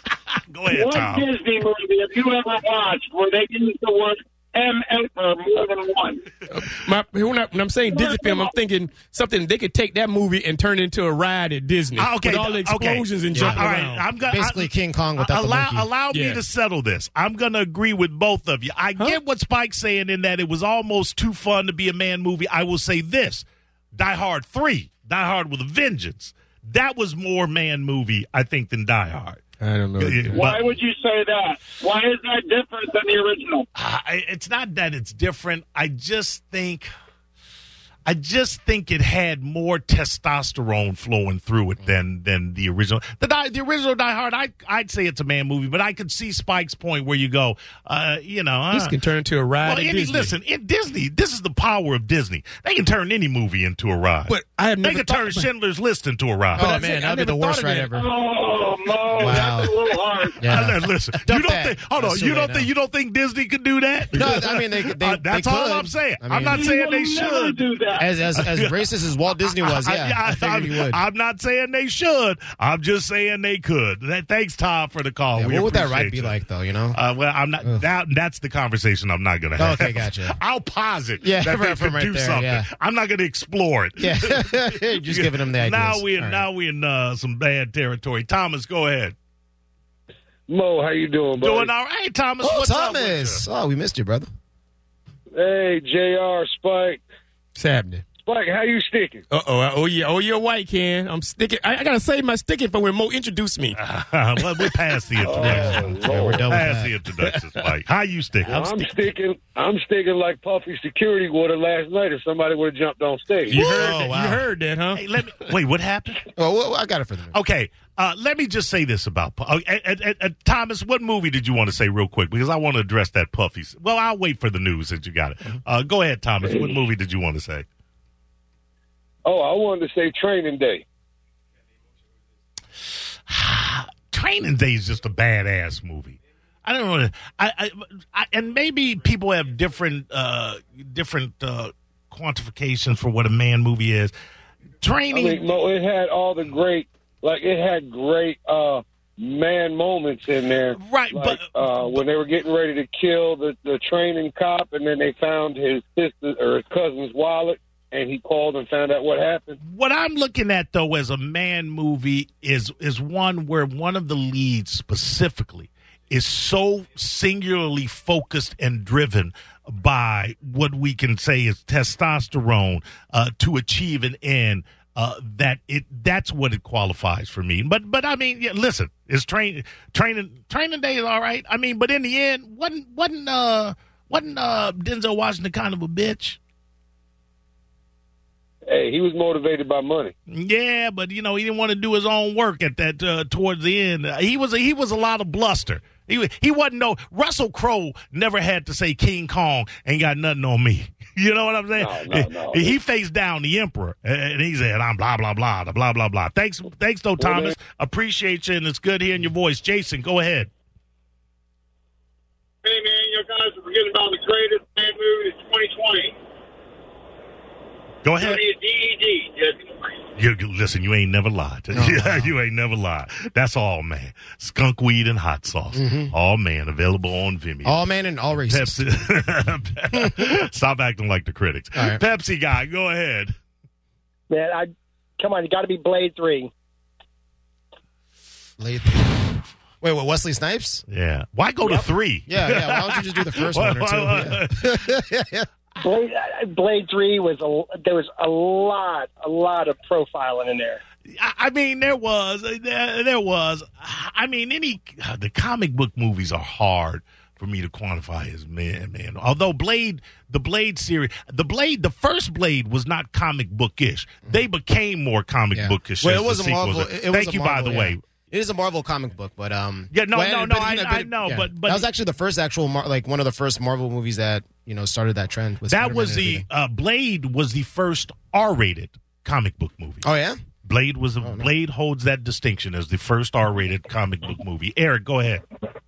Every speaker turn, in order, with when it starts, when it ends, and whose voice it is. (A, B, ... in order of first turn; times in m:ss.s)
0:00.3-0:01.3 A
0:00.7-0:06.3 B
0:06.5-0:14.1 C
0:07.8-0:08.6 B
0:12.0-0:29.4 A
0:13.3-0:13.7 D
0:14.3-0:15.9 D
0:16.1-0:16.4 C
0:29.6-0:30.4 C
0:30.0-0:30.7 A
0:30.3-0:33.7 B
0:33.8-0:36.9 A
0:38.1-0:49.0 A
0:48.7-0:50.4 C
0:49.6-0:56.8 A
0:54.3-0:55.5 C
0:56.6-0:57.9 C
0:56.6-0:58.1 D
0:57.9-1:00.6 B
0:59.2-0:59.7 D
1:00.4-1:02.7 D
1:00.4-1:07.6 A
1:04.1-1:06.6 D
1:06.4-1:08.2 B
1:08.0-1:11.0 D
1:08.4-1:08.8 A
1:09.5-1:16.4 A
1:15.4-1:17.0 D
1:16.9-1:29.2 A
1:19.6-1:20.4 D
1:21.2-1:22.7 D
1:24.0-1:26.4 D
1:30.5-1:31.7 E
1:31.4-1:33.4 A
1:32.4-1:34.3 D
1:35.3-1:37.0 E
1:37.6-1:38.0 C
1:38.2-1:39.3 E
1:39.3-1:43.8 C
1:43.8-1:48.8 A
1:45.2-1:46.5 E
1:45.4-1:46.9 D
1:48.4-1:53.6 E
1:53.5-1:55.0 C
1:53.5-1:54.2 A
1:53.6-1:54.4 D
1:54.9-1:56.2 A
1:56.4-1:57.4 D
1:57.3-2:07.7 A
2:09.2-2:10.8 E
2:13.3-2:24.1 A
2:24.8-2:25.4 A
2:25.1-2:39.6 E
2:30.8-2:32.0 A
2:39.6-3:06.4 A
3:08.7-3:10.1 E
3:10.3-3:30.5 A
3:21.8-3:22.8 E
3:27.2-3:27.6 E
3:32.6-3:36.2 B
3:38.0-3:38.4 A
3:38.2-3:40.0 B
3:40.2-3:47.8 A
3:41.7-3:42.3 D
3:45.7-3:46.1 D
3:47.6-3:48.8 D
3:48.5-3:53.4 A
3:49.9-3:50.3 D
3:51.8-3:52.0 D
3:54.3-3:56.5 F
3:58.6-4:00.8 D
4:00.9-4:04.9 A
4:02.3-4:05.5 D
4:05.8-4:10.8 F
4:11.1-4:28.0 A
4:25.5-4:36.4 D
4:29.9-4:31.9 A
4:35.7-4:40.0 A
4:40.0-4:40.4 D
4:40.6-4:45.4 A
4:41.2-4:41.5 D